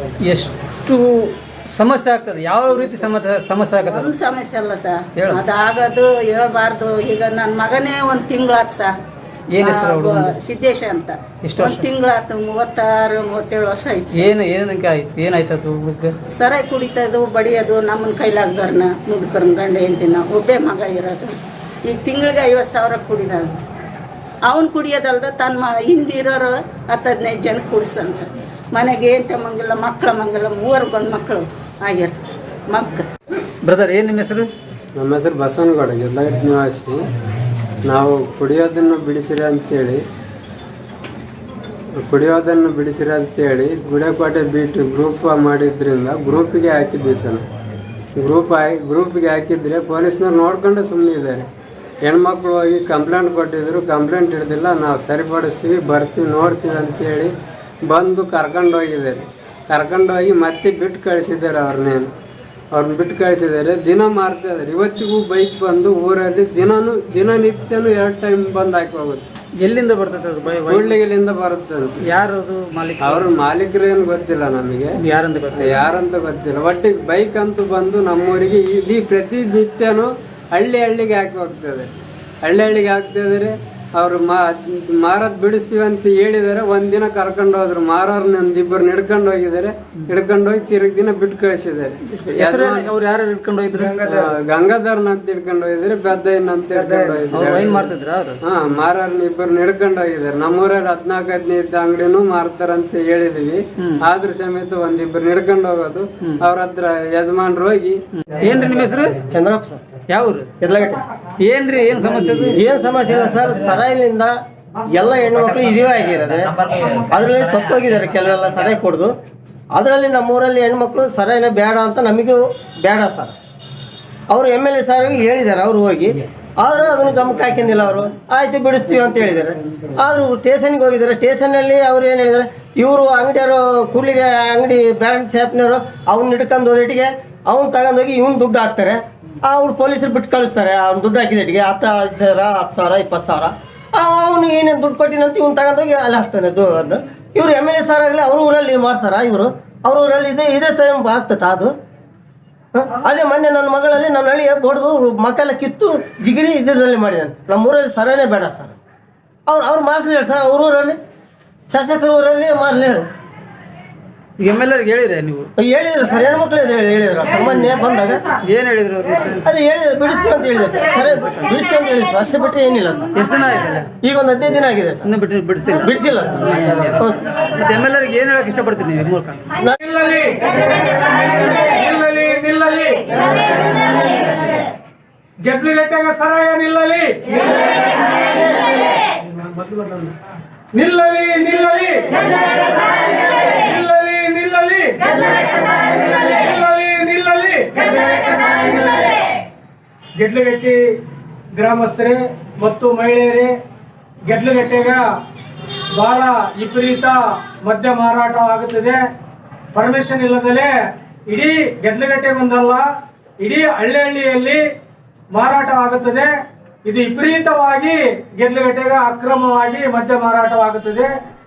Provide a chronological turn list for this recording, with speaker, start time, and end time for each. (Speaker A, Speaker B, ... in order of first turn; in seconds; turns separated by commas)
Speaker A: 0.2-4.1, Speaker B: 3.8-8.9, Speaker A: 5.2-5.4, Speaker A: 9.5-10.3, Speaker B: 9.6-14.3, Speaker A: 11.4-11.8, Speaker A: 14.1-16.1, Speaker B: 16.3-21.3, Speaker B: 21.9-23.6, Speaker B: 24.5-32.1, Speaker B: 32.7-33.0, Speaker A: 33.6-34.5, Speaker C: 35.0-37.0, Speaker C: 37.9-40.0, Speaker C: 42.0-47.4, Speaker C: 48.2-51.5, Speaker C: 52.0-57.3, Speaker C: 57.9-62.1, Speaker C: 62.7-69.2, Speaker A: 69.6-71.0, Speaker C: 70.6-72.0, Speaker A: 72.0-73.3, Speaker C: 73.0-75.0, Speaker A: 75.0-75.8, Speaker C: 75.5-81.9, Speaker C: 82.4-92.9, Speaker A: 92.1-94.3, Speaker C: 93.8-97.9, Speaker A: 96.7-98.4, Speaker C: 98.4-108.0, Speaker A: 108.2-109.2, Speaker D: 109.2-109.9, Speaker A: 110.1-110.5, Speaker D: 110.6-111.0, Speaker A: 111.4-112.6, Speaker D: 112.5-114.3, Speaker D: 114.9-119.1, Speaker D: 119.7-123.3, Speaker D: 124.3-151.7, Speaker D: 152.7-158.8, Speaker D: 159.5-161.0, Speaker D: 161.7-163.1, Speaker A: 164.4-165.5, Speaker D: 165.6-168.2, Speaker A: 168.4-169.4, Speaker D: 169.4-173.1, Speaker A: 173.1-173.9, Speaker D: 174.0-175.1, Speaker A: 175.1-177.0, Speaker D: 175.8-177.2, Speaker A: 177.5-179.4, Speaker E: 179.8-183.3, Speaker E: 185.4-187.4, Speaker E: 189.2-190.1, Speaker E: 190.7-199.1, Speaker E: 200.2-201.0, Speaker E: 201.6-203.6, Speaker E: 204.3-205.0, Speaker E: 205.9-209.0, Speaker E: 209.7-210.7, Speaker E: 211.3-212.9, Speaker E: 213.4-214.6, Speaker E: 215.3-216.3, Speaker E: 216.8-221.1